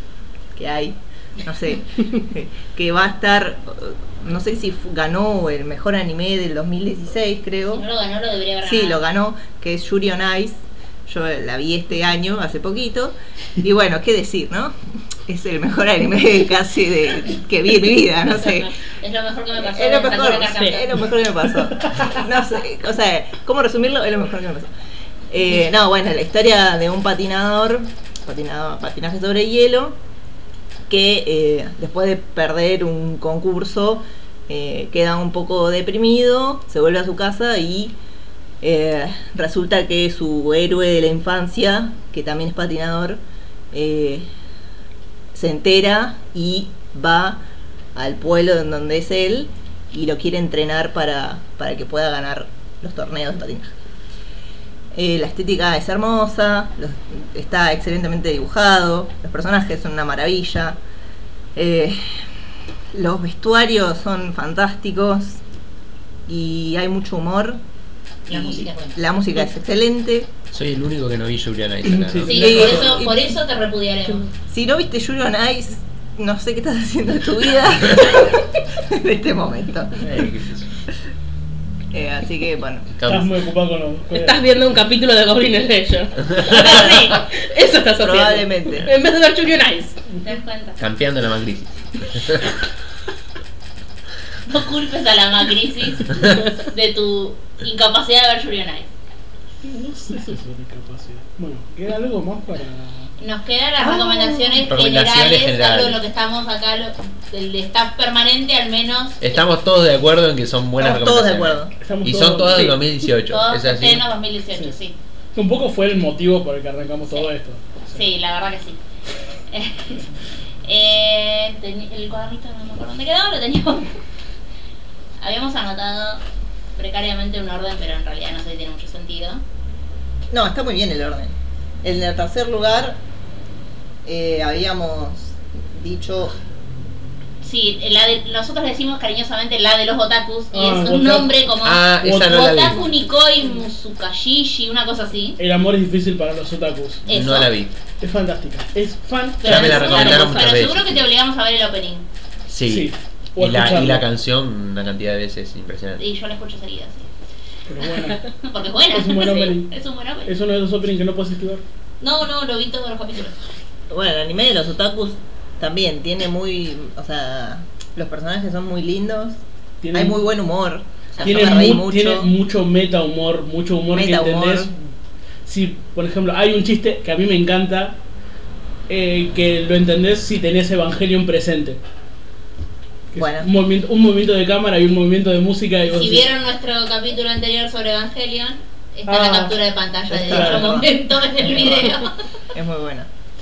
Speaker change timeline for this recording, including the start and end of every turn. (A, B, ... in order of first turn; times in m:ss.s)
0:00.5-0:07.8 A
0:07.7-0:09.0 B
0:08.6-0:14.7 A
0:15.2-0:18.7 A
0:18.6-0:20.9 B
0:19.6-0:24.7 A
0:25.3-0:30.0 A
0:30.9-0:37.9 A
0:38.6-0:43.2 A
0:43.7-0:44.3 A
0:45.3-0:47.4 A
0:47.9-0:53.7 A
0:54.9-1:00.8 A
1:01.5-1:02.2 A
1:02.9-1:05.4 A
1:06.3-1:07.6 A
1:08.3-1:09.0 B
1:08.3-1:10.3 A
1:10.5-1:12.8 C
1:11.8-1:12.9 D
1:12.2-1:14.2 B
1:12.3-1:13.3 A
1:14.5-1:20.3 A
1:20.0-1:20.7 C
1:21.9-1:22.9 A
1:23.0-1:23.3 C
1:23.0-1:24.4 D
1:24.1-1:30.0 E
1:26.4-1:27.2 B
1:26.5-1:26.8 A
1:28.0-1:28.9 A
1:30.2-1:30.8 B
1:30.8-1:32.5 C
1:34.4-1:38.9 B
1:39.6-1:43.1 D
1:43.2-1:49.4 B
1:43.8-1:44.6 A
1:44.6-1:46.0 C
1:49.2-1:54.0 C
1:50.8-1:51.7 A
1:51.8-1:52.8 D
1:53.3-1:55.0 B
1:55.3-1:58.0 D
1:57.9-1:58.8 B
1:59.5-2:00.0 B
2:00.6-2:04.0 B
2:05.2-2:06.2 B
2:06.8-2:09.4 B
2:10.3-2:13.0 A
2:14.0-2:16.4 A
2:17.4-2:25.4 B
2:20.5-2:21.3 D
2:21.6-2:22.8 C
2:22.0-2:22.3 D
2:25.4-2:27.0 D
2:27.0-2:27.5 B
2:27.1-2:27.7 C
2:28.0-2:30.0 D
2:29.4-2:32.0 B
2:29.4-2:31.0 C
2:32.5-2:36.0 C
2:32.7-2:34.0 D
2:36.0-2:37.1 B
2:37.7-2:38.2 D
2:38.4-2:40.3 B
2:38.9-2:39.7 D
2:40.2-2:41.6 D
2:42.0-2:43.4 B
2:43.9-2:49.4 A
2:49.8-2:50.2 D
2:49.9-2:52.3 A
2:51.2-2:54.7 D
2:53.9-2:54.7 A
2:55.4-2:58.0 D
2:58.9-3:01.8 D
3:03.1-3:06.3 D
3:03.2-3:03.5 A
3:05.9-3:12.1 B
3:09.1-3:09.6 D
3:10.1-3:10.9 A
3:10.3-3:10.8 D
3:11.4-3:11.9 A
3:12.5-3:13.1 A